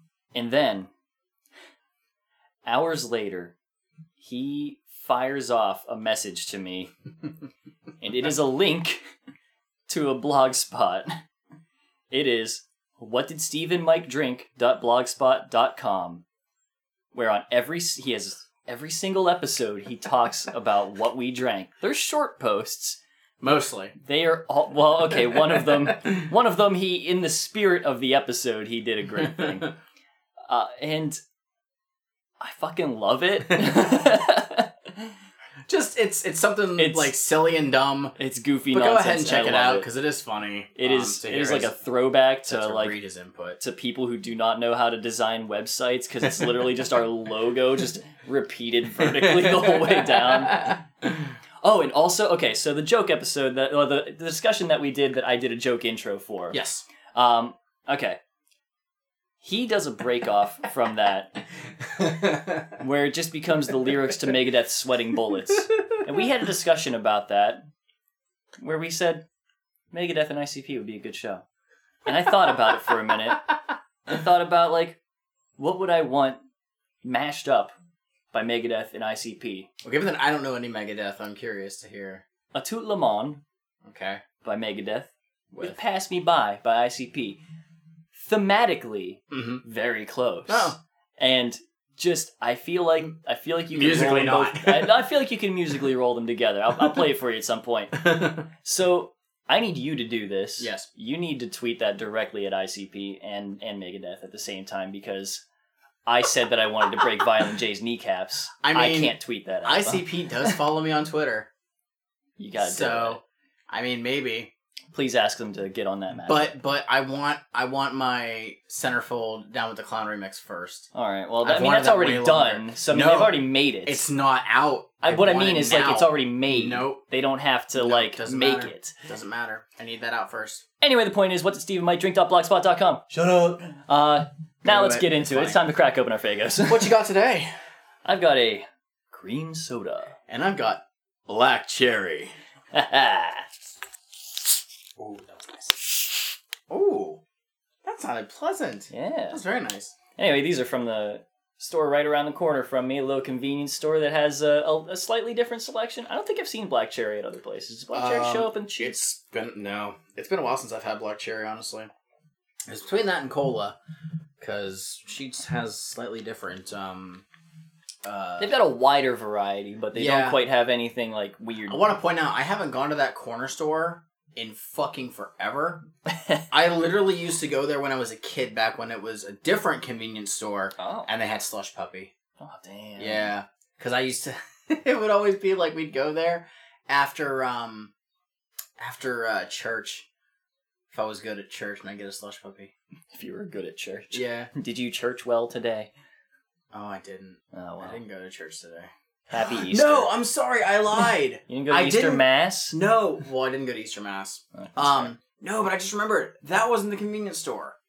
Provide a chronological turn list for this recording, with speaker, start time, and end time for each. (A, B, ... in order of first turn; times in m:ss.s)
0:00.3-0:00.9 A
0:02.6-0:03.5 A
0:04.2-0:06.9 A
0:08.0-0:09.1 A
0:09.9-0:11.2 A
0:12.1-0:16.2 A
0:17.1-0:23.0 A
0:23.4-0:23.9 B
0:24.0-0:29.7 A
0:30.5-0:31.2 A
0:32.4-0:35.1 A
0:35.7-0:38.2 B
0:36.8-0:37.1 A
0:38.2-0:39.9 A
0:38.7-0:41.8 B
0:40.8-0:43.0 A
0:42.4-0:43.6 B
0:43.6-0:50.8 A
0:49.1-0:50.8 B
0:51.6-0:56.6 A
0:56.5-0:56.8 B
0:57.1-0:58.2 A
0:59.4-1:01.4 A
1:02.0-1:02.7 B
1:02.8-1:07.7 A
1:08.6-1:09.2 A
1:09.9-1:11.4 A
1:12.1-1:13.5 A
1:14.1-1:15.0 A
1:15.6-1:16.4 A
1:17.0-1:17.7 A
1:18.3-1:19.7 A
1:19.8-1:22.2 B
1:22.5-1:23.4 A
1:23.8-1:24.2 B
1:24.4-1:27.4 A
1:28.1-1:45.4 A
1:29.3-1:29.6 B
1:30.5-1:30.8 B
1:33.7-1:35.0 B
1:38.0-1:38.4 B
1:40.6-1:40.9 B
1:46.1-1:50.6 A
1:48.6-1:51.5 B
1:52.4-1:53.2 A
1:52.6-1:54.5 B
1:54.9-1:56.5 A
1:56.2-2:00.9 B
2:00.9-2:04.1 A
2:01.4-2:07.0 B
2:05.0-2:08.9 A
2:07.7-2:10.6 B
2:10.8-2:16.9 A
2:14.6-2:15.6 B
2:16.7-2:17.6 B
2:18.1-2:20.2 A
2:20.3-2:22.3 B
2:22.7-2:23.4 A
2:25.0-2:27.2 B
2:27.8-2:29.9 B
2:28.9-2:29.4 A
2:30.2-2:39.1 A
2:37.9-2:41.9 B
2:42.7-2:43.8 B
2:44.4-2:47.2 B
2:48.0-2:48.6 B
2:48.4-2:51.8 A
2:49.9-2:50.4 B
2:51.7-2:55.9 B
2:56.5-3:02.1 B
3:00.8-3:01.1 A
3:02.4-3:03.3 A
3:03.0-3:07.9 B
3:08.8-3:10.1 B
3:10.9-3:12.7 B
3:13.1-3:15.9 A
3:14.1-3:14.5 B
3:16.7-3:27.8 B
3:17.5-3:18.0 A
3:19.3-3:20.1 A
3:21.5-3:22.8 A
3:24.6-3:25.1 A